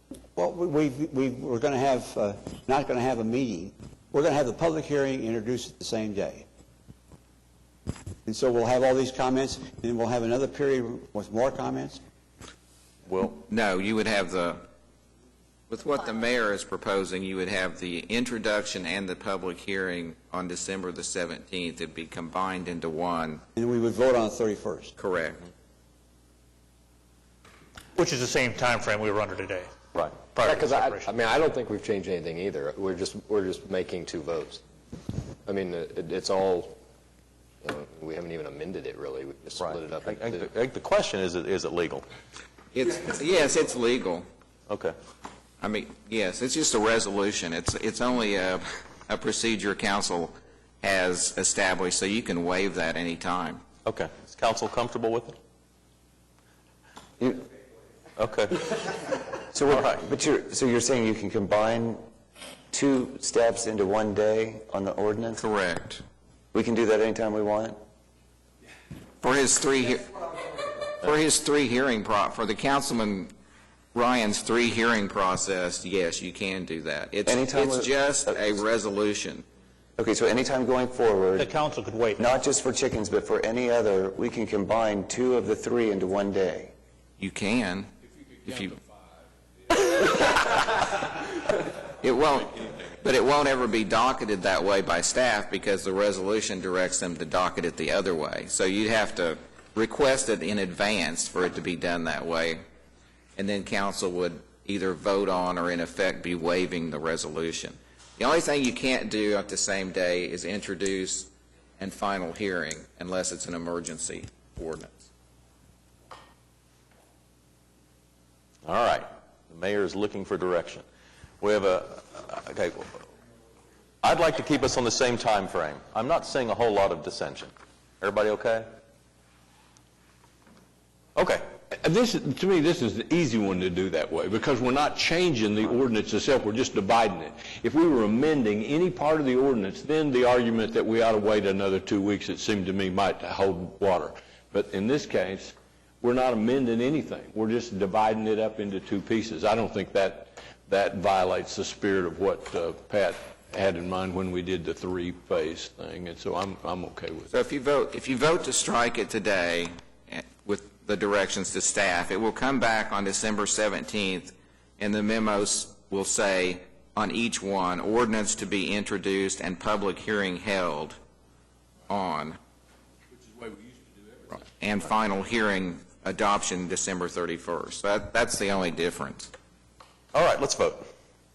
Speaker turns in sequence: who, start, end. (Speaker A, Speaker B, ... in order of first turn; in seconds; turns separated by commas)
Speaker A: 0.3-6.4, Speaker A: 8.2-12.0, Speaker B: 13.1-13.4, Speaker C: 13.5-14.7, Speaker C: 15.7-23.4, Speaker A: 23.5-24.9, Speaker C: 25.0-25.4, Speaker D: 27.9-31.1, Speaker E: 30.4-34.6, Speaker E: 35.4-36.8, Speaker E: 37.6-40.5, Speaker B: 39.6-42.0, Speaker C: 42.7-44.2, Speaker B: 44.7-44.9, Speaker C: 45.6-53.6, Speaker B: 53.9-55.4, Speaker F: 57.2-57.4, Speaker B: 58.2-58.7, Speaker F: 59.5-62.0, Speaker F: 62.7-65.4, Speaker C: 65.3-66.0, Speaker F: 66.5-67.8, Speaker C: 69.2-70.2, Speaker C: 71.0-73.3, Speaker C: 73.9-79.4, Speaker F: 77.2-78.6, Speaker F: 80.0-81.5, Speaker D: 81.4-82.3, Speaker F: 82.2-86.7, Speaker C: 87.2-87.9, Speaker C: 88.4-88.8, Speaker C: 92.0-102.6, Speaker C: 103.3-115.1, Speaker B: 118.6-120.8, Speaker B: 121.4-123.0, Speaker B: 124.0-128.7, Speaker B: 131.2-131.4, Speaker G: 131.8-157.3, Speaker C: 157.3-171.0, Speaker C: 171.9-172.4, Speaker C: 174.6-179.3, Speaker B: 180.1-180.8